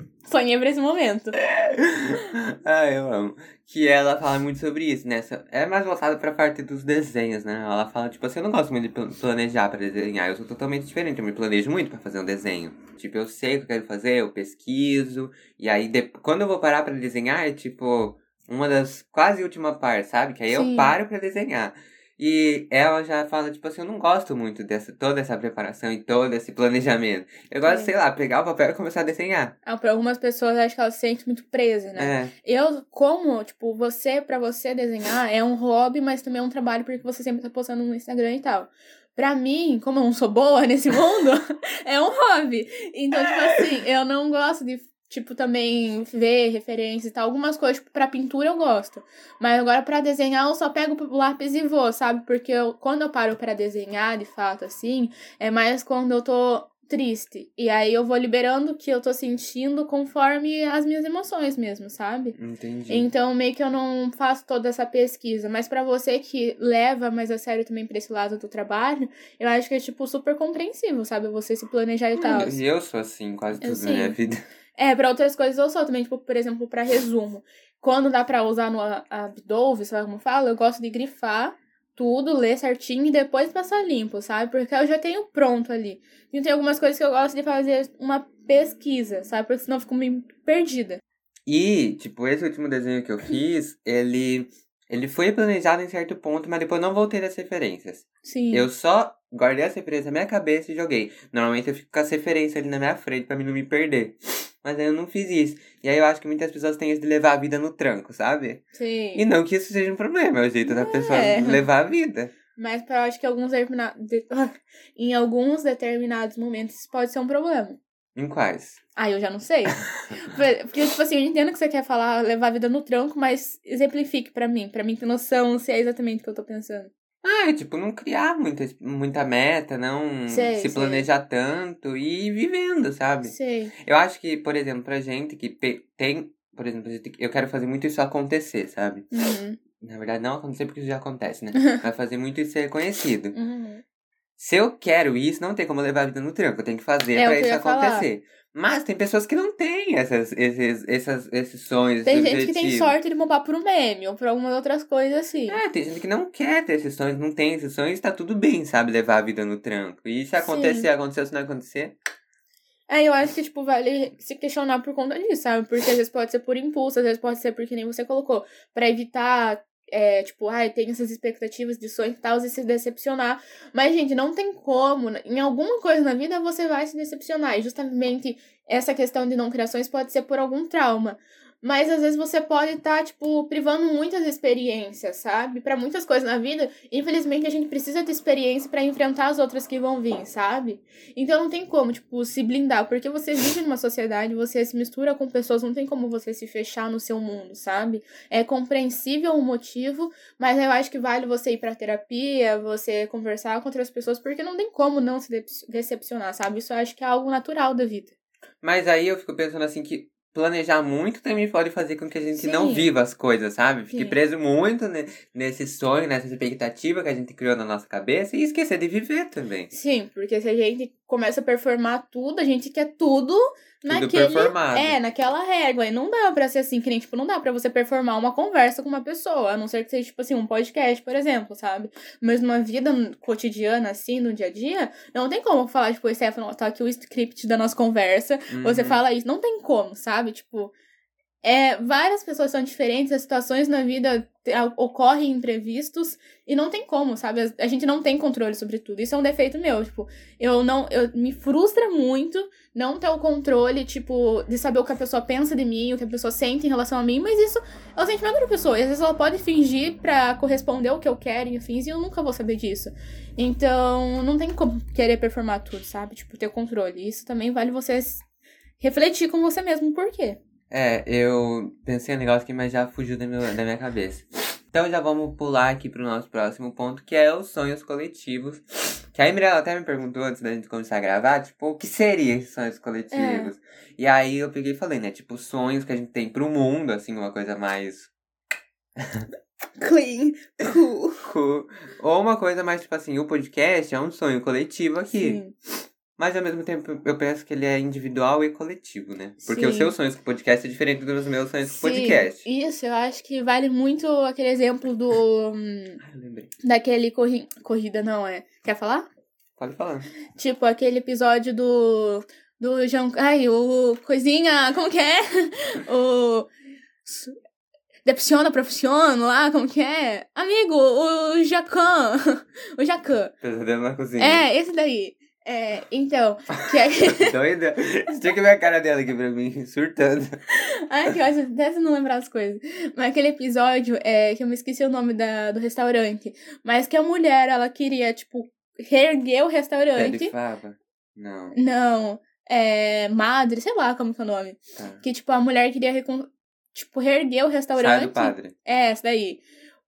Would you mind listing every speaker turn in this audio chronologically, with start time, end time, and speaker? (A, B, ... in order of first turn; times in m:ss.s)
0:00.2-0:01.4 A
0:01.4-0:29.6 B
0:20.5-0:20.9 A
0:27.6-0:27.9 A
0:29.6-1:02.4 A
0:32.0-0:32.3 B
1:02.4-1:03.1 B
1:02.9-1:12.6 A
1:12.2-1:14.4 B
1:13.6-1:14.2 A
1:14.8-1:31.0 A
1:31.4-1:52.3 B
1:38.2-1:38.7 A
1:48.7-1:49.2 A
1:50.6-1:51.6 A
1:52.5-1:57.8 A
1:58.2-1:58.8 B
1:59.0-2:06.9 A
2:07.2-2:19.1 B
2:10.3-2:11.1 A
2:13.2-2:13.7 A
2:19.1-2:19.6 A
2:19.8-2:23.4 B
2:23.3-2:23.8 A
2:24.4-2:32.9 B
2:27.1-2:28.1 A
2:32.0-2:35.6 A
2:35.5-2:42.0 B
2:40.4-2:40.9 A
2:42.9-3:28.1 A
3:28.6-3:39.7 B
3:32.4-3:32.9 A
3:33.9-3:34.2 A
3:39.7-4:00.7 A
3:43.9-3:45.0 B
3:58.5-3:59.0 B
4:01.4-4:28.2 A
4:28.8-4:30.4 A
4:30.7-4:48.1 B
4:43.1-4:43.5 A
4:49.0-4:49.3 B
4:49.8-4:51.3 A
4:51.2-4:55.4 B
4:55.1-4:55.5 A
4:56.2-5:02.4 B
4:59.4-4:59.9 A
5:01.6-5:06.0 A
5:06.0-5:06.5 B
5:06.6-5:09.1 A
5:09.6-5:10.1 B
5:10.4-5:16.5 A
5:17.0-5:17.4 A
5:18.0-5:23.3 A
5:23.4-5:24.4 B
5:24.2-5:27.3 A
5:27.1-5:30.4 B
5:30.5-5:40.3 A
5:40.0-5:41.6 B
5:41.5-5:49.4 A
5:44.8-5:45.0 B
5:47.7-5:48.5 B